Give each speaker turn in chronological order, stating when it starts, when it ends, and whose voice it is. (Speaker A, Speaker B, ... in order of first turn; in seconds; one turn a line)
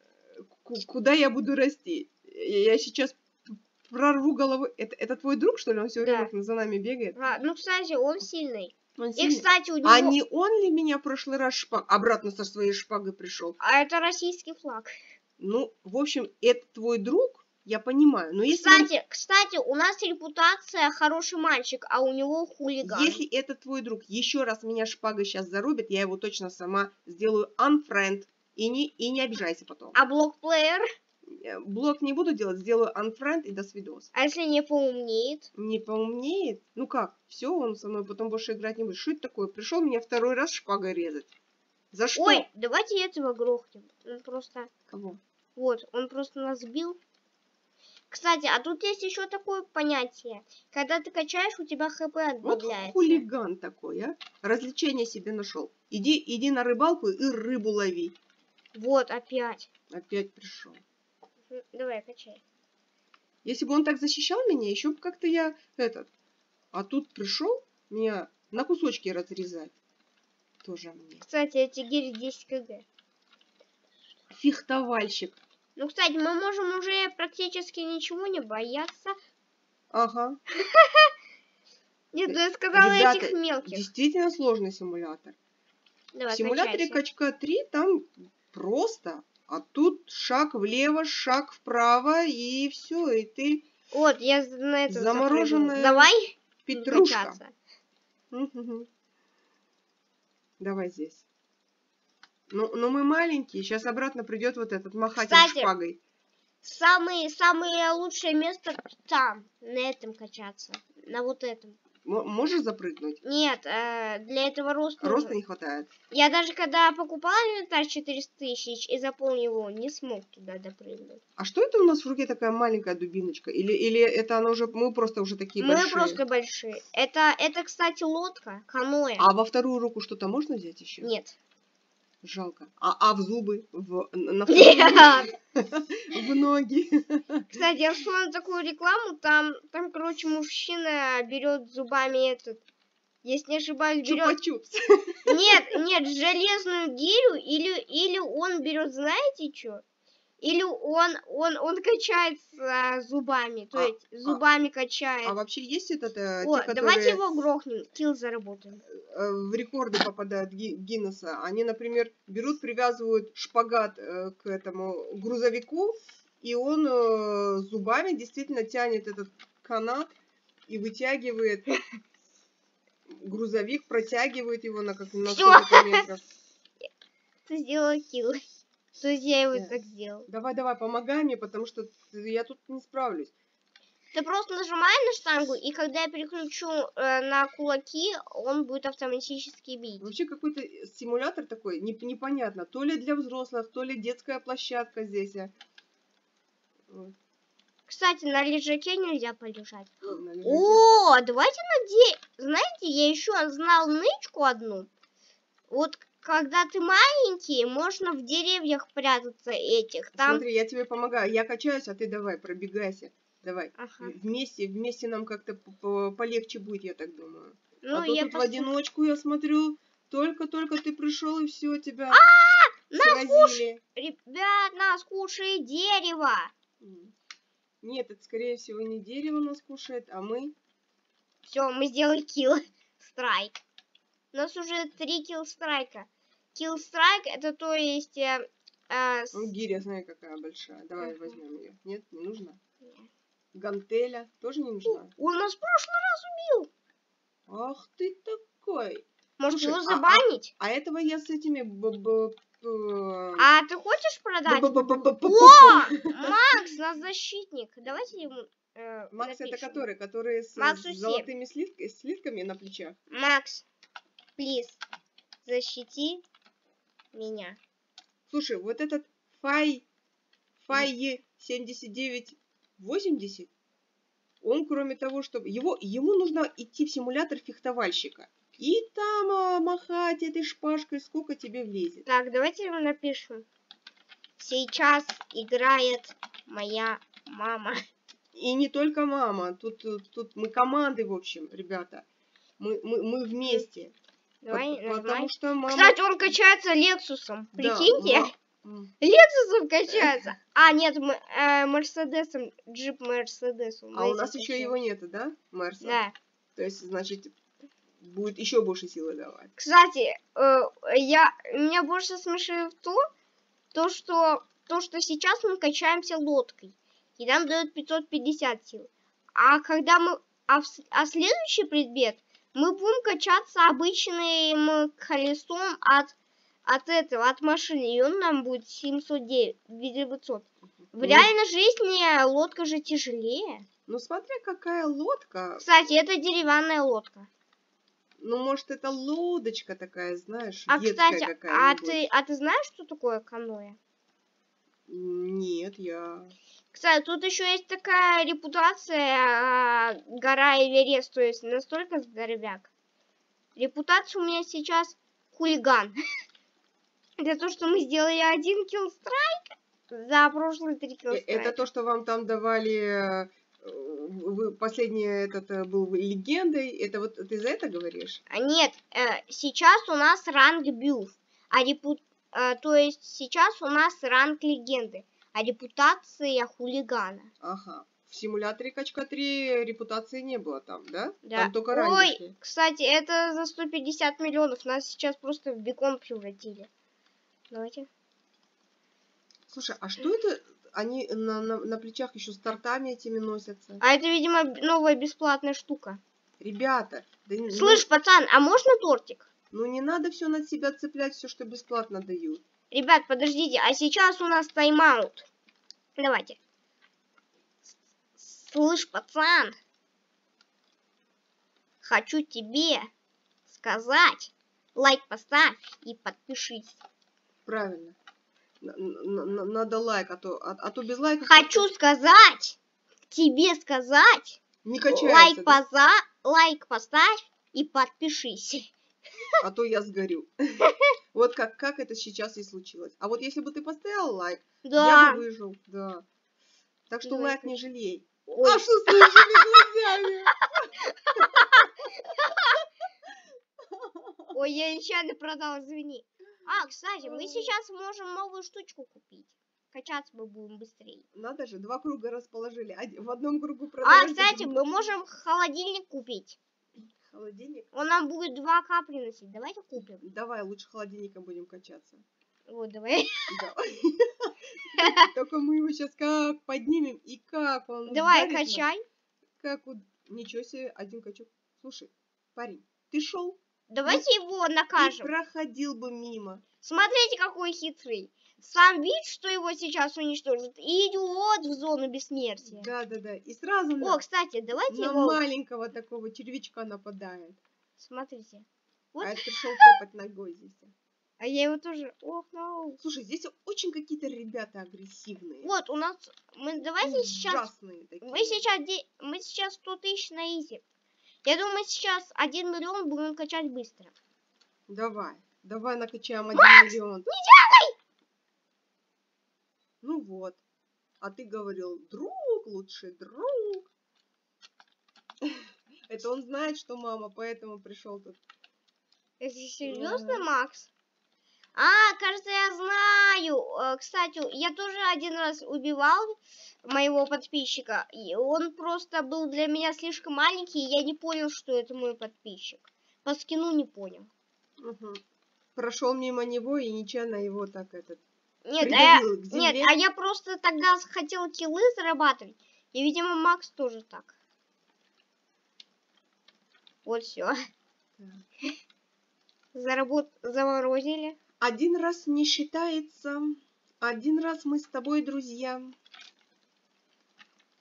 Speaker A: 0.5-7.2
Speaker B: 6.0-6.3
Speaker B: 7.2-10.2
Speaker A: 9.0-13.6
Speaker B: 13.6-15.0
Speaker A: 15.4-18.9
Speaker B: 18.5-23.2
Speaker A: 22.8-30.0
Speaker B: 29.9-30.9
Speaker A: 31.3-34.1
Speaker B: 34.1-35.5
Speaker A: 35.6-41.3
Speaker A: 41.9-42.5
Speaker B: 42.1-44.7
Speaker A: 44.9-45.2
Speaker B: 45.6-47.0
Speaker B: 48.1-53.2
Speaker A: 52.4-58.2
Speaker B: 58.7-59.7
Speaker A: 59.9-60.8
Speaker B: 61.5-62.4
Speaker A: 63.5-66.1
Speaker A: 66.7-69.8
Speaker A: 70.6-71.2
Speaker B: 71.2-72.9
Speaker A: 74.3-75.4
Speaker B: 75.8-79.2
Speaker A: 79.9-80.4
Speaker B: 80.5-81.1
Speaker B: 82.1-83.9
Speaker A: 82.3-85.4
Speaker B: 86.1-87.0
Speaker A: 86.3-93.7
Speaker B: 93.9-97.5
Speaker A: 94.9-96.1
Speaker A: 96.7-97.4
Speaker A: 98.3-98.9
Speaker A: 100.6-101.2
Speaker A: 102.5-106.0
Speaker B: 105.2-105.7
Speaker B: 106.6-111.8
Speaker A: 112.0-113.2
Speaker B: 113.2-115.4
Speaker A: 115.0-115.9
Speaker B: 116.1-121.2
Speaker A: 121.4-126.2
Speaker B: 125.6-129.3
Speaker A: 129.2-131.1
Speaker B: 131.0-131.4
Speaker A: 132.2-137.5
Speaker B: 134.5-135.3
Speaker B: 137.5-142.6
Speaker B: 143.2-144.4
Speaker A: 144.0-145.6
Speaker B: 145.3-149.8
Speaker B: 150.4-155.4
Speaker A: 153.7-154.4
Speaker A: 155.2-157.4
Speaker B: 156.4-158.8
Speaker A: 158.9-170.2
Speaker A: 170.7-171.7
Speaker A: 173.1-176.2
Speaker B: 175.3-176.1
Speaker B: 177.5-178.4
Speaker B: 179.0-180.3
Speaker A: 180.3-183.3
Speaker B: 184.1-190.1
Speaker A: 190.0-195.5
Speaker A: 196.9-197.2
Speaker B: 197.9-204.9
Speaker A: 200.1-200.8
Speaker B: 205.7-210.4
Speaker A: 210.2-222.2
Speaker B: 213.8-214.1
Speaker B: 217.8-218.7
Speaker B: 222.1-226.5
Speaker A: 223.0-223.8
Speaker A: 226.8-227.1
Speaker A: 227.8-230.6
Speaker B: 231.4-233.6
Speaker B: 234.3-239.5
Speaker A: 239.3-242.6
Speaker B: 241.0-241.4
Speaker B: 242.8-243.1
Speaker A: 243.5-245.1
Speaker B: 244.8-246.7
Speaker A: 247.5-253.5
Speaker B: 249.4-250.5
Speaker B: 253.4-259.9
Speaker A: 254.5-256.6
Speaker A: 259.1-263.0
Speaker B: 260.6-261.3
Speaker B: 263.1-263.7
Speaker B: 264.4-264.8
Speaker B: 265.4-266.2
Speaker B: 267.1-267.6
Speaker A: 268.3-269.9
Speaker A: 270.6-273.5
Speaker A: 274.4-282.0
Speaker B: 282.1-283.5
Speaker B: 284.4-287.8
Speaker A: 288.4-292.1
Speaker A: 292.6-293.9
Speaker B: 294.4-298.4
Speaker A: 294.5-296.0
Speaker A: 297.6-298.9
Speaker B: 299.0-304.7
Speaker A: 303.9-306.0
Speaker B: 305.8-306.1
Speaker A: 306.6-307.4
Speaker A: 308.0-309.5
Speaker B: 309.6-313.1
Speaker B: 313.7-326.1
Speaker B: 326.7-333.7
Speaker A: 331.0-331.3
Speaker A: 333.9-335.7
Speaker B: 335.6-337.3
Speaker A: 338.2-342.0
Speaker B: 340.7-343.8
Speaker A: 344.9-346.3
Speaker B: 346.7-352.7
Speaker B: 353.6-355.9
Speaker B: 357.2-361.6
Speaker A: 361.1-368.2
Speaker B: 368.3-377.3
Speaker A: 377.4-382.3
Speaker B: 381.2-386.7
Speaker B: 387.5-387.9
Speaker A: 389.5-393.8
Speaker B: 393.8-396.0
Speaker A: 396.4-397.9
Speaker B: 397.5-399.3
Speaker A: 399.5-402.4
Speaker B: 402.7-405.3
Speaker B: 406.0-406.4
Speaker B: 408.2-409.6
Speaker B: 411.8-412.9
Speaker B: 413.5-416.8
Speaker A: 417.5-418.0
Speaker A: 418.6-421.6
Speaker B: 421.2-422.6
Speaker B: 423.1-428.7
Speaker A: 424.6-425.6
Speaker A: 429.4-436.1
Speaker B: 430.6-430.9
Speaker B: 434.6-435.2
Speaker A: 436.9-441.3
Speaker B: 437.0-437.6
Speaker B: 438.3-439.7
Speaker B: 440.5-442.6
Speaker A: 443.6-444.4
Speaker B: 444.3-451.1
Speaker A: 447.0-447.5
Speaker A: 451.1-454.6
Speaker B: 453.8-456.4
Speaker A: 457.0-457.7
Speaker B: 457.7-460.0
Speaker A: 460.0-462.0
Speaker B: 462.5-463.4
Speaker A: 463.3-468.7
Speaker B: 464.8-465.1
Speaker B: 467.9-468.8
Speaker A: 469.4-474.1
Speaker B: 473.7-475.1
Speaker A: 474.8-476.4
Speaker B: 476.6-482.7
Speaker A: 482.4-484.0
Speaker B: 483.8-485.2
Speaker A: 484.7-487.4
Speaker B: 487.8-489.7
Speaker A: 489.0-490.7
Speaker B: 491.2-492.8
Speaker A: 492.8-495.5
Speaker B: 495.4-497.5
Speaker A: 496.8-498.4
Speaker B: 498.0-500.6
Speaker B: 501.2-503.9
Speaker A: 504.7-507.1
Speaker B: 506.3-507.8
Speaker A: 509.8-510.4
Speaker A: 511.0-513.7
Speaker A: 515.2-518.2
Speaker B: 519.2-520.7
Speaker A: 519.6-520.3
Speaker B: 521.5-534.1
Speaker A: 534.6-535.0
Speaker A: 535.6-538.0
Speaker B: 538.5-544.2
Speaker A: 538.6-539.7
Speaker B: 546.9-547.4
Speaker A: 548.0-548.2
Speaker B: 549.5-551.2
Speaker A: 551.4-555.8